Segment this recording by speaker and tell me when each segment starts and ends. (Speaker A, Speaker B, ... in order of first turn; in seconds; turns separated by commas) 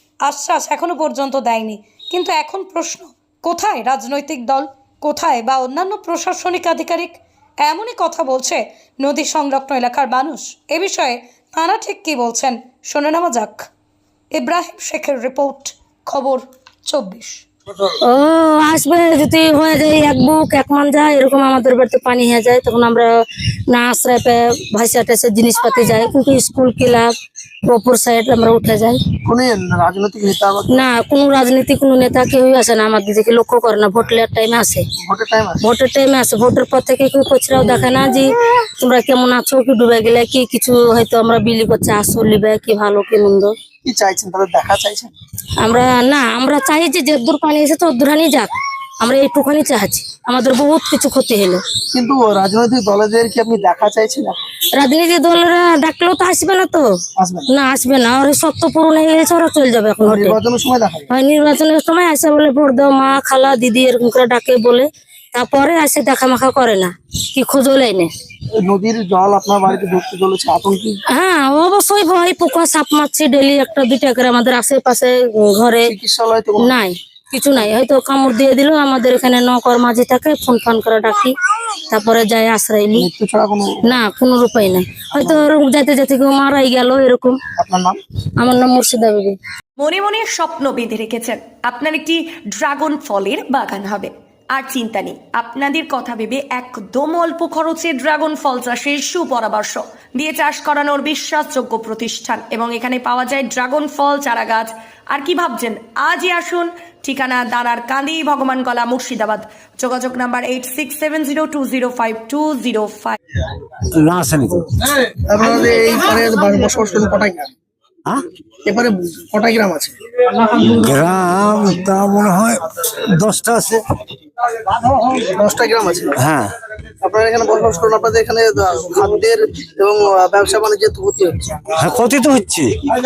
Speaker A: 0.2-13.7, Speaker A: 14.3-17.4, Speaker B: 18.0-23.1, Speaker B: 23.7-27.1, Speaker B: 27.7-29.0, Speaker C: 29.2-30.9, Speaker B: 30.7-34.8, Speaker C: 35.0-35.6, Speaker B: 35.6-43.5, Speaker C: 43.8-45.1, Speaker B: 45.6-51.6, Speaker C: 51.9-54.4, Speaker B: 54.8-56.9, Speaker C: 57.2-57.5, Speaker B: 57.5-60.4, Speaker C: 60.0-61.1, Speaker B: 61.1-68.1, Speaker C: 68.6-71.0, Speaker B: 71.1-75.9, Speaker C: 75.9-76.7, Speaker B: 76.6-81.3, Speaker B: 81.9-83.1, Speaker C: 83.0-83.8, Speaker B: 83.8-87.4, Speaker C: 87.6-88.0, Speaker B: 88.4-89.4, Speaker D: 89.8-113.2, Speaker E: 113.9-114.7, Speaker C: 115.2-117.5, Speaker C: 118.6-119.9, Speaker E: 120.3-123.8, Speaker C: 125.0-126.1, Speaker E: 126.2-126.5, Speaker C: 127.0-131.3, Speaker E: 131.8-132.8